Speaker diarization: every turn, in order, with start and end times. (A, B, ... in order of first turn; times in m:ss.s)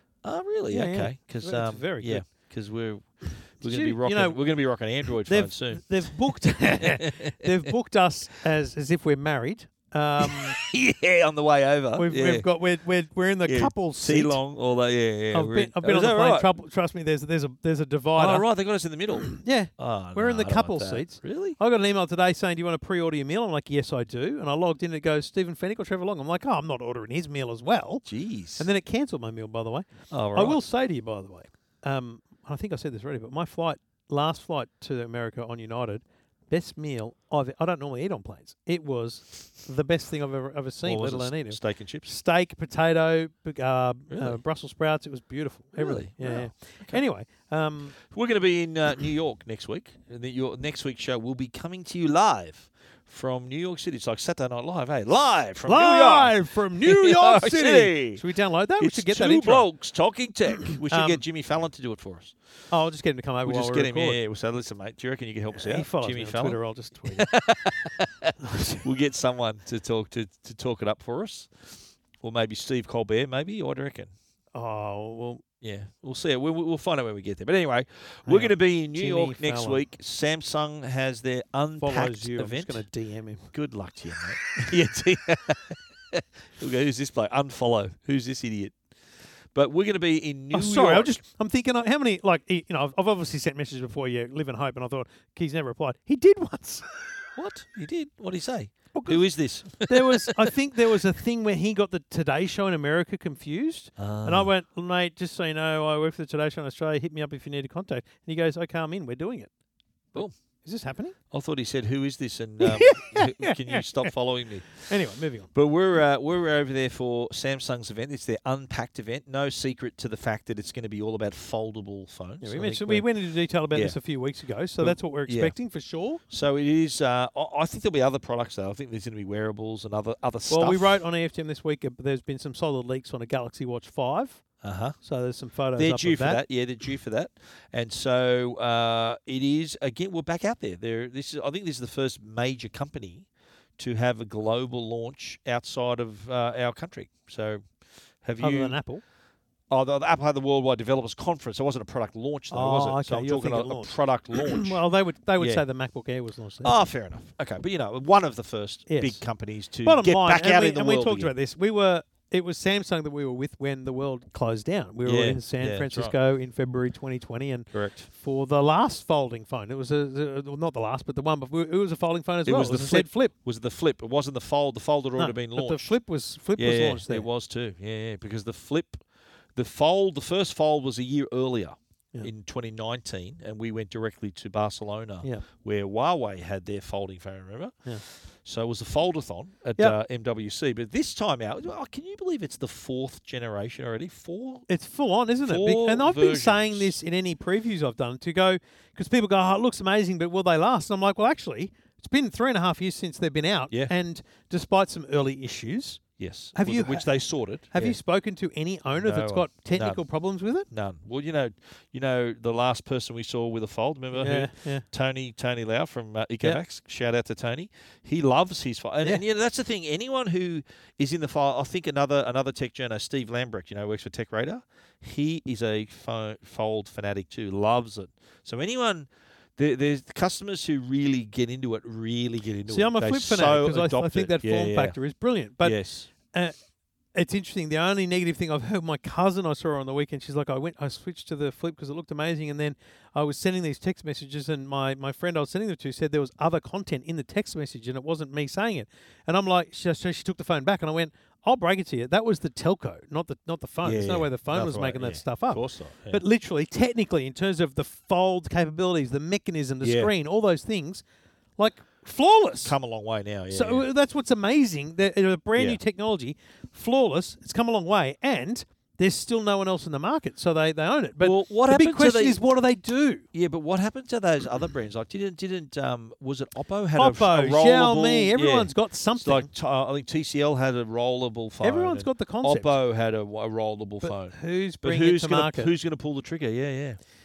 0:00.2-0:07.6 A
0:00.7-0:02.2 B
0:03.6-0:04.4 B
0:05.2-0:10.6 B
0:10.2-0:12.5 A
0:12.0-0:14.4 B
0:13.4-0:16.5 A
0:15.3-0:18.4 B
0:18.2-0:21.6 A
0:19.2-0:28.0 B
0:28.0-0:28.7 A
0:28.6-0:48.0 B
0:30.1-0:30.6 A
0:40.8-0:42.1 A
0:44.1-0:44.4 A
0:45.8-0:47.0 A
0:48.0-0:58.2 A
0:55.6-0:59.7 B
0:58.8-1:02.4 A
1:00.7-1:01.2 B
1:02.7-1:04.2 B
1:03.4-1:14.1 A
1:05.5-1:07.3 B
1:08.4-1:08.8 B
1:14.5-1:15.4 B
1:15.6-1:22.8 A
1:18.2-1:19.8 B
1:21.8-1:23.5 B
1:23.5-1:28.8 A
1:29.5-1:31.2 A
1:30.5-1:37.1 B
1:37.4-1:40.5 A
1:38.9-1:49.5 B
1:44.0-1:44.5 A
1:50.1-1:51.2 B
1:51.3-1:54.8 A
1:52.6-1:54.1 B
1:54.8-1:55.5 B
1:55.5-2:03.1 A
2:02.4-2:06.2 B
2:03.7-2:04.0 A
2:04.8-2:05.6 A
2:06.3-2:11.0 A
2:10.5-2:14.4 B
2:14.6-2:15.0 A
2:15.0-2:16.4 B
2:15.7-2:23.3 A
2:23.8-2:27.7 A
2:28.2-2:28.8 A
2:28.4-2:29.0 B
2:29.7-2:34.8 A
2:32.5-2:36.8 B
2:35.4-2:35.6 A
2:36.6-2:41.3 A
2:38.9-2:39.2 B
2:39.8-2:53.3 B
2:45.0-2:46.1 A
2:47.7-2:48.1 A
2:52.4-2:56.0 A
2:55.2-2:57.3 B
2:56.6-2:59.0 A
2:59.5-3:14.7 A
3:14.7-3:26.0 B
3:15.4-3:16.9 A
3:26.2-3:28.0 A
3:26.5-3:27.1 B
3:27.7-3:30.7 B
3:29.0-3:30.0 A
3:30.7-3:55.0 A
3:34.1-3:34.8 B
3:52.7-3:56.5 B
3:55.6-3:56.1 A
3:57.1-4:21.0 B
4:13.8-4:16.2 A
4:19.8-4:20.1 A
4:21.6-4:22.8 B
4:22.6-4:23.8 A
4:23.5-4:33.2 B
4:31.2-4:32.4 A
4:33.3-4:47.0 A
4:37.0-4:39.5 B
4:41.6-4:42.8 B
4:44.0-4:45.7 B